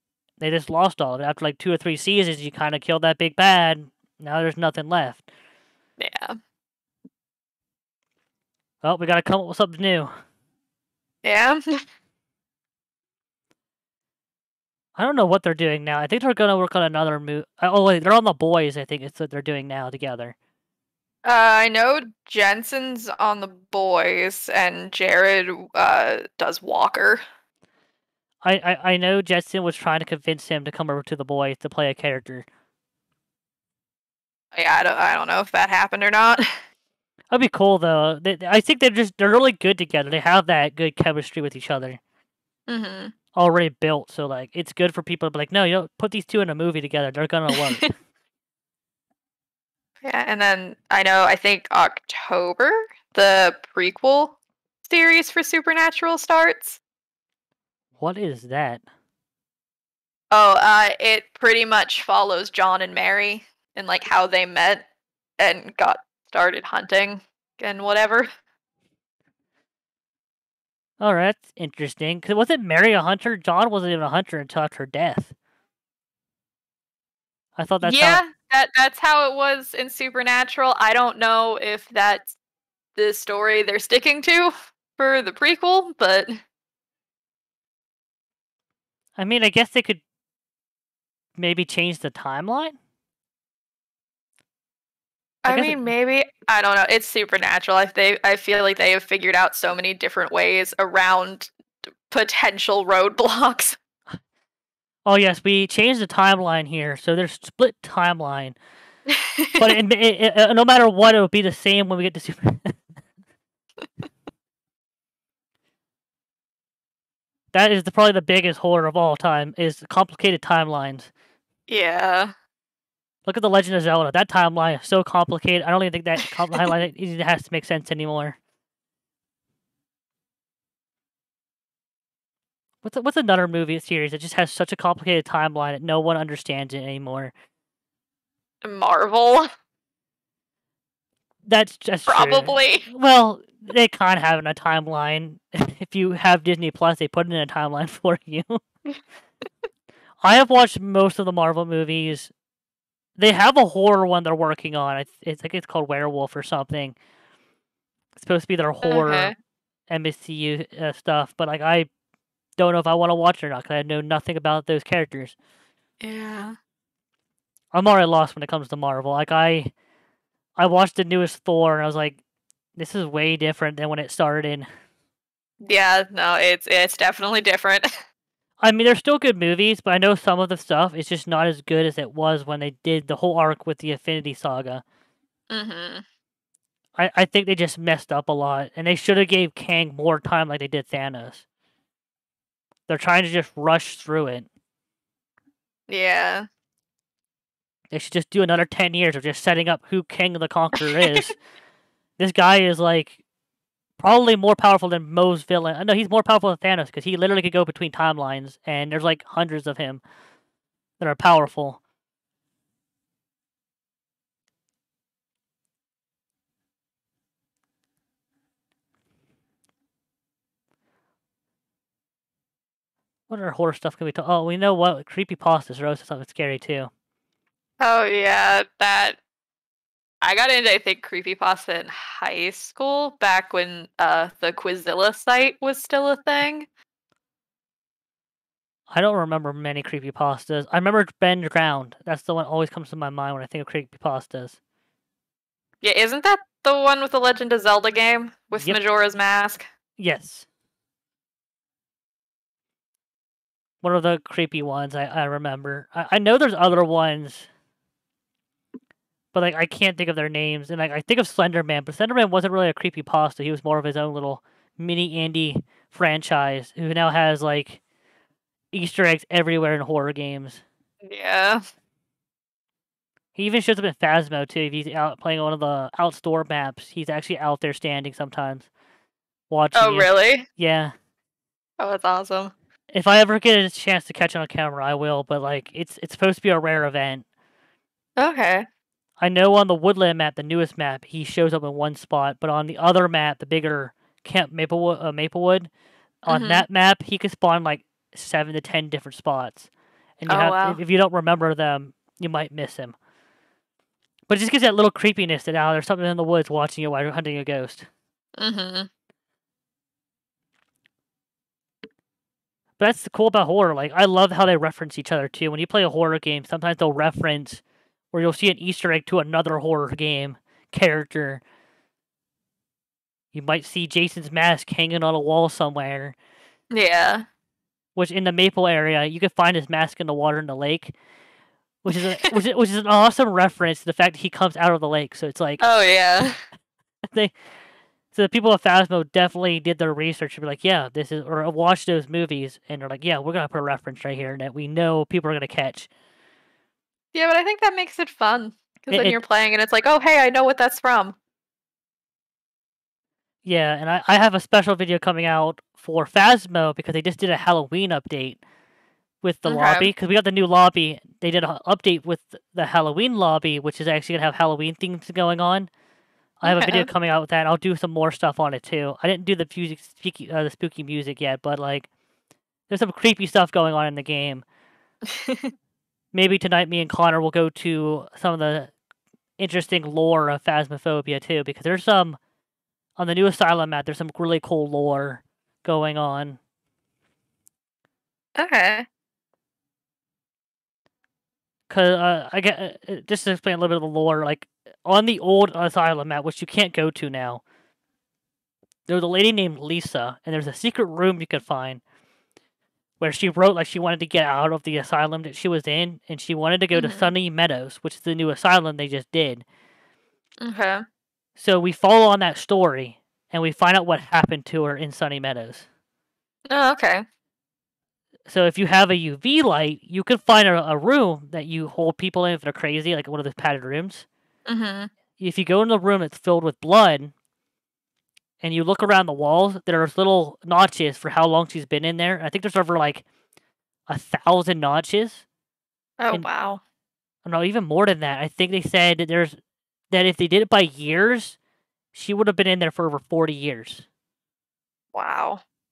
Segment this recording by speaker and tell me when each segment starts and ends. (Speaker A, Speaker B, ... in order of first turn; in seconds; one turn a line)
Speaker A: 0.4-5.2
Speaker B: 6.0-6.4
Speaker A: 8.8-10.1
Speaker B: 11.2-11.6
Speaker A: 15.0-20.4
Speaker B: 21.2-27.2
Speaker A: 28.4-32.5
Speaker B: 34.5-36.5
Speaker A: 37.3-42.0
Speaker B: 42.7-43.1
Speaker A: 43.3-47.9
Speaker B: 47.5-47.9
Speaker B: 50.0-56.8
Speaker A: 58.0-58.8
Speaker B: 60.3-64.8
Speaker B: 65.4-68.3
Speaker A: 71.0-75.3
Speaker A: 77.6-78.2
Speaker B: 77.8-82.3
Speaker B: 83.0-86.4
Speaker A: 89.2-90.0
Speaker A: 91.4-92.8
Speaker B: 95.5-101.5
Speaker A: 95.5-95.8
Speaker B: 102.1-103.8
Speaker A: 105.1-108.6
Speaker B: 109.2-109.7
Speaker A: 109.6-112.8
Speaker A: 117.5-121.1
Speaker B: 121.7-122.3
Speaker A: 123.3-128.4
Speaker A: 132.8-137.3
Speaker B: 138.6-139.5
Speaker A: 141.5-148.6
Speaker B: 142.1-142.9
Speaker A: 150.2-152.3
Speaker A: 153.2-157.0
Speaker A: 158.2-159.3
Speaker B: 158.9-159.3
Speaker A: 159.9-161.9
Speaker A: 162.6-165.4
Speaker B: 166.0-166.6
Speaker A: 167.7-169.7
Speaker A: 170.6-172.2
Speaker A: 172.8-174.7
Speaker B: 175.6-177.9
Speaker A: 178.6-184.8
Speaker B: 185.5-186.0
Speaker A: 187.0-191.4
Speaker A: 192.9-194.5
Speaker B: 195.9-196.5
Speaker A: 197.9-201.4
Speaker A: 202.2-203.2
Speaker A: 204.0-210.0
Speaker A: 211.0-211.8
Speaker A: 223.3-226.9
Speaker B: 227.8-229.2
Speaker B: 230.2-236.7
Speaker A: 238.9-244.6
Speaker B: 245.8-249.7
Speaker A: 250.0-250.5
Speaker A: 253.8-257.5
Speaker A: 259.3-267.8
Speaker A: 268.7-270.6
Speaker B: 271.0-271.6
Speaker A: 273.4-278.7
Speaker A: 279.5-280.9
Speaker B: 279.8-280.5
Speaker B: 281.8-282.5
Speaker A: 282.9-287.2
Speaker B: 288.2-288.7
Speaker A: 289.2-295.7
Speaker A: 296.2-299.7
Speaker B: 296.3-296.6
Speaker A: 300.2-303.0
Speaker B: 300.3-300.8
Speaker A: 304.3-307.9
Speaker B: 308.4-308.9
Speaker A: 312.8-321.4
Speaker A: 323.3-326.1
Speaker B: 326.7-327.3
Speaker A: 328.0-330.9
Speaker A: 331.8-335.6
Speaker B: 335.6-336.4
Speaker A: 338.1-345.9
Speaker B: 347.1-351.2
Speaker A: 348.9-349.2
Speaker A: 353.4-358.4
Speaker A: 359.2-365.7
Speaker B: 359.5-359.9
Speaker A: 366.4-371.9
Speaker B: 366.4-366.9
Speaker A: 372.7-374.4
Speaker B: 375.1-375.5
Speaker A: 376.1-378.7
Speaker A: 379.4-382.2
Speaker A: 383.0-386.4
Speaker B: 388.4-388.9
Speaker A: 391.7-397.4
Speaker A: 398.9-401.8
Speaker A: 403.0-409.4
Speaker B: 406.8-407.1
Speaker B: 410.4-410.8
Speaker A: 411.4-415.7
Speaker B: 416.5-417.0
Speaker A: 418.3-424.1
Speaker B: 424.5-424.9
Speaker A: 425.2-427.1
Speaker A: 428.4-433.1
Speaker A: 433.9-435.2
Speaker B: 436.0-436.6
Speaker A: 437.3-439.4
Speaker A: 439.9-441.4
Speaker A: 441.9-443.9
Speaker B: 444.9-445.4